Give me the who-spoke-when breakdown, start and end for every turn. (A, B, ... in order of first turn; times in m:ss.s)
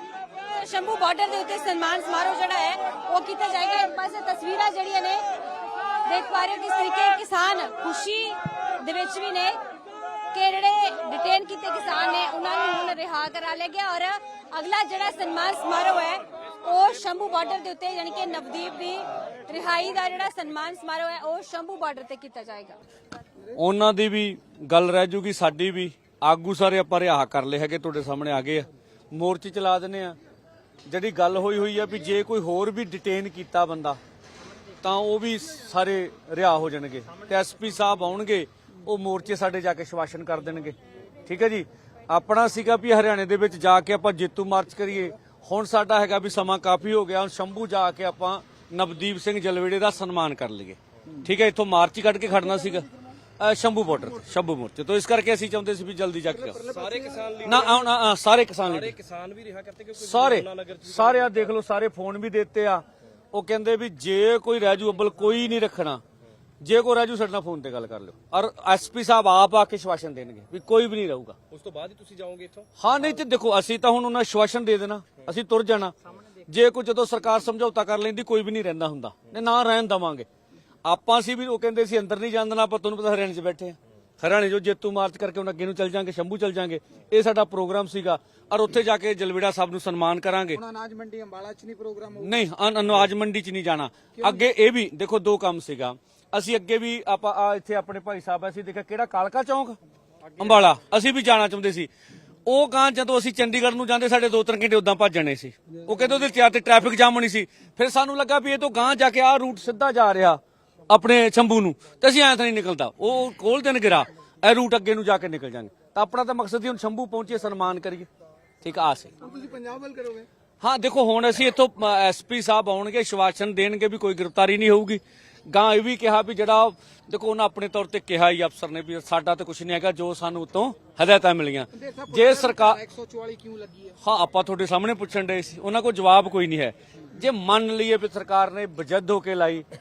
0:00.4-0:05.2 A
0:06.0-0:09.6 A
0:10.3-0:22.8 A
0:23.5-0:30.2 B
0:30.8-0:34.0 B
0:34.8-0:52.9 B
0:53.4-0:56.6 B
0:56.5-0:57.0 C
0:56.6-0:57.9 D
0:57.4-0:59.0 B
0:58.6-1:01.4 D
1:00.0-1:06.0 B
1:06.6-1:11.4 B
1:11.5-1:12.7 D
1:12.8-1:20.3 B
1:20.8-1:30.6 B
1:30.6-1:32.3 C
1:32.2-1:39.8 B
1:40.4-1:41.9 B
1:42.4-1:58.1 B
1:58.6-1:59.1 B
1:59.2-2:00.3 C
2:00.6-2:12.8 B
2:11.7-2:14.0 C
2:14.0-2:19.6 B